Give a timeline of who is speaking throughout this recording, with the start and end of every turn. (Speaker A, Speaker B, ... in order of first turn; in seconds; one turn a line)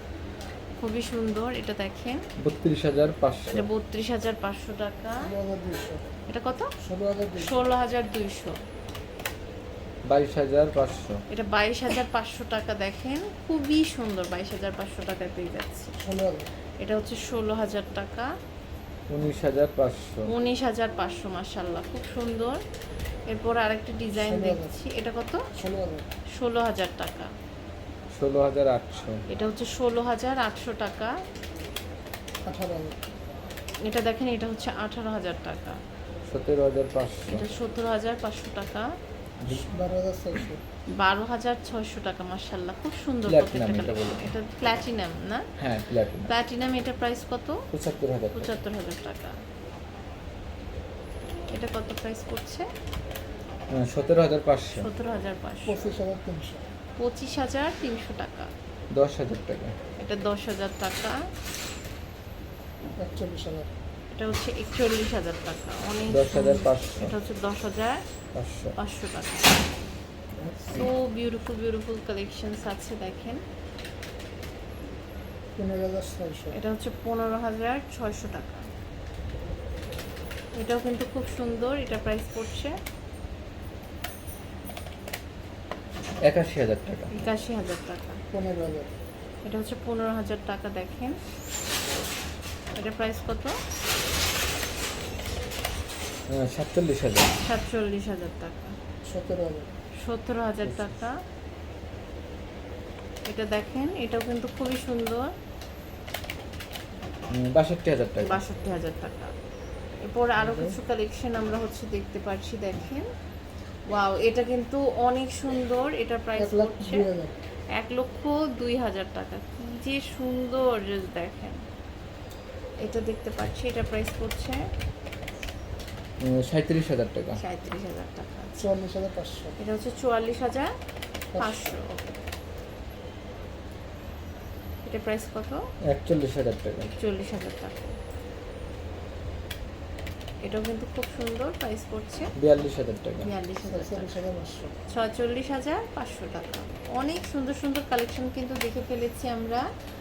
Speaker A: 0.8-2.2
Speaker B: 2.4-3.7
Speaker A: 3.5-5.3
Speaker C: 5.2-6.0
Speaker A: 6.3-6.7
Speaker C: 6.8-7.7
Speaker A: 7.4-8.6
Speaker B: 10.1-11.2
Speaker A: 11.3-15.9
Speaker C: 16.0-16.5
Speaker A: 16.8-18.3
Speaker B: 19.1-20.3
Speaker A: 20.3-22.6
Speaker A: 23.3-25.4
Speaker C: 24.1-24.8
Speaker C: 25.5-26.1
Speaker A: 26.3-27.3
Speaker B: 28.1-29.2
Speaker A: 29.3-31.1
Speaker C: 32.5-33.0
Speaker A: 33.8-35.8
Speaker B: 36.3-37.4
Speaker A: 37.3-38.9
Speaker B: 39.4-39.7
Speaker C: 39.5-40.6
Speaker A: 41.0-45.5
Speaker B: 43.3-44.3
Speaker B: 45.6-46.3
Speaker A: 46.2-47.6
Speaker B: 47.7-48.6
Speaker A: 48.3-49.4
Speaker A: 51.5-52.7
Speaker B: 53.7-54.9
Speaker A: 54.8-55.8
Speaker C: 55.7-56.6
Speaker A: 57.0-58.5
Speaker B: 58.9-59.7
Speaker A: 60.0-61.2
Speaker C: 63.0-63.7
Speaker A: 64.1-68.0
Speaker B: 66.1-67.1
Speaker B: 68.3-68.8
Speaker A: 68.8-69.6
Speaker C: 70.3-70.8
Speaker A: 70.7-73.4
Speaker C: 75.6-76.6
Speaker A: 76.5-78.7
Speaker A: 80.6-82.8
Speaker B: 86.2-87.2
Speaker A: 87.1-88.2
Speaker C: 88.3-88.9
Speaker A: 89.4-91.2
Speaker A: 92.8-93.6
Speaker B: 96.3-97.3
Speaker A: 97.4-98.8
Speaker C: 99.0-99.7
Speaker A: 100.0-101.1
Speaker B: 100.6-101.0
Speaker A: 103.3-105.3
Speaker B: 107.3-108.4
Speaker A: 108.2-109.3
Speaker A: 110.0-113.1
Speaker B: 110.4-110.8
Speaker A: 113.9-117.0
Speaker C: 116.4-117.3
Speaker A: 117.7-121.6
Speaker A: 122.8-124.7
Speaker B: 126.2-127.4
Speaker A: 127.3-128.6
Speaker C: 128.6-129.6
Speaker A: 129.6-130.7
Speaker C: 131.3-131.8
Speaker A: 131.4-132.0
Speaker A: 134.8-135.6
Speaker B: 135.9-136.9
Speaker A: 136.9-137.9
Speaker A: 140.4-142.3
Speaker B: 142.3-143.3
Speaker A: 143.2-144.2
Speaker C: 143.6-144.8
Speaker A: 144.9-149.7